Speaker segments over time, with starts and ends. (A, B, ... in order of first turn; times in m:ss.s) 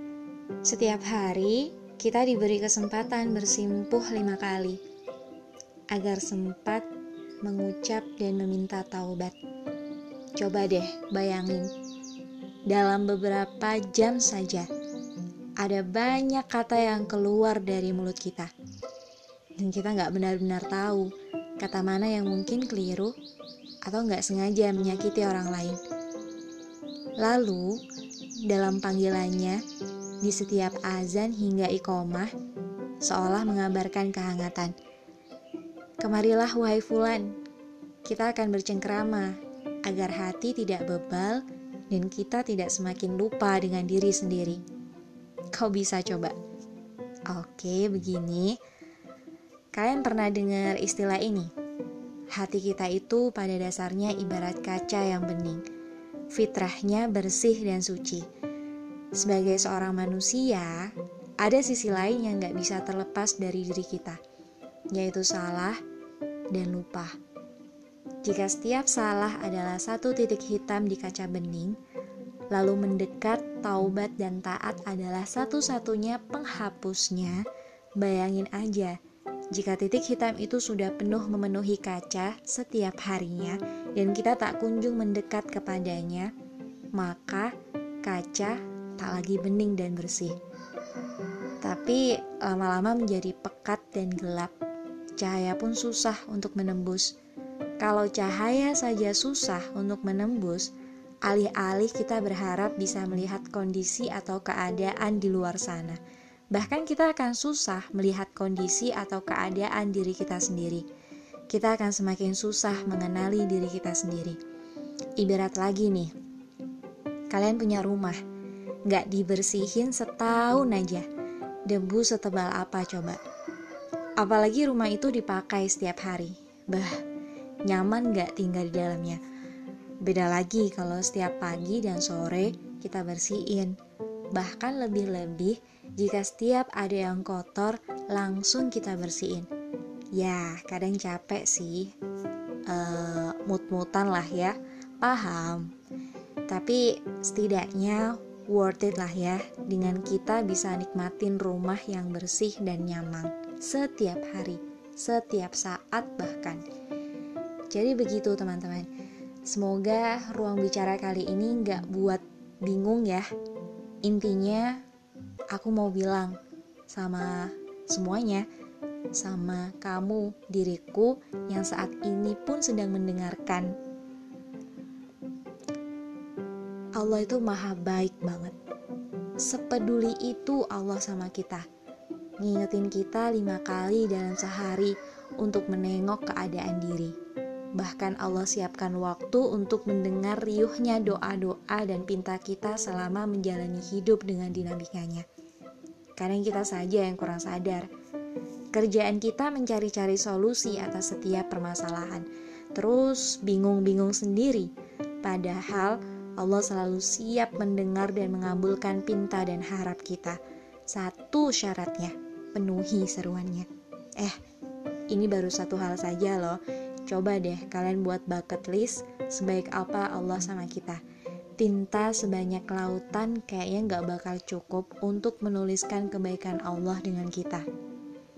0:00.6-0:04.8 A
0:05.9-0:06.9 A
0:07.4-0:09.4 A
0:10.4-0:11.7 A
0:12.7-0:14.7 A
0:15.6-0:18.5 A
0:19.6-0:23.1 A
0:23.9-0:25.8 A
0:27.2-0:27.8 A
0:28.4-0:29.6 A
0:30.2-0:32.3 A
0:33.0-0:34.7 A
0:36.0-0:37.4 A
0:38.0-0:44.6 A
0:45.5-0:46.4 A
0:47.3-0:48.6 A
0:49.7-0:51.5 A
0:52.4-0:55.6 A
0:56.3-0:58.3 A
0:59.2-1:04.2 A
1:04.9-1:05.8 A
1:06.5-1:07.2 A
1:08.2-1:11.8 A
1:12.5-1:17.4 A
1:18.0-1:19.0 A
1:19.5-1:26.3 A
1:27.0-1:27.5 A
1:28.0-1:30.4 A
1:31.6-1:34.5 A
1:35.2-1:37.1 A
1:37.8-1:40.7 A
1:41.2-1:46.0 A
1:46.5-1:50.8 A
1:51.5-1:54.4 A
1:55.2-1:56.1 A
1:57.3-1:58.2 A
1:58.9-2:01.1 A
2:01.7-2:03.2 A
2:04.2-2:07.0 A
2:07.7-2:09.2 A
2:10.0-2:13.8 A
2:14.3-2:19.5 A
2:20.1-2:21.9 A
2:22.7-2:25.7 A
2:26.5-2:36.6 A
2:37.7-2:38.9 A
2:39.5-2:43.3 A
2:44.0-2:44.8 A
2:45.5-2:46.4 A
2:46.9-2:48.5 A
2:49.2-2:53.7 A
2:57.0-2:58.6 A
2:59.4-3:01.7 A
3:02.4-3:07.2 A
3:07.8-3:15.3 A
3:16.2-3:17.9 A
3:18.7-3:24.7 A
3:25.2-3:34.4 A
3:35.1-3:41.0 A
3:41.6-3:47.7 A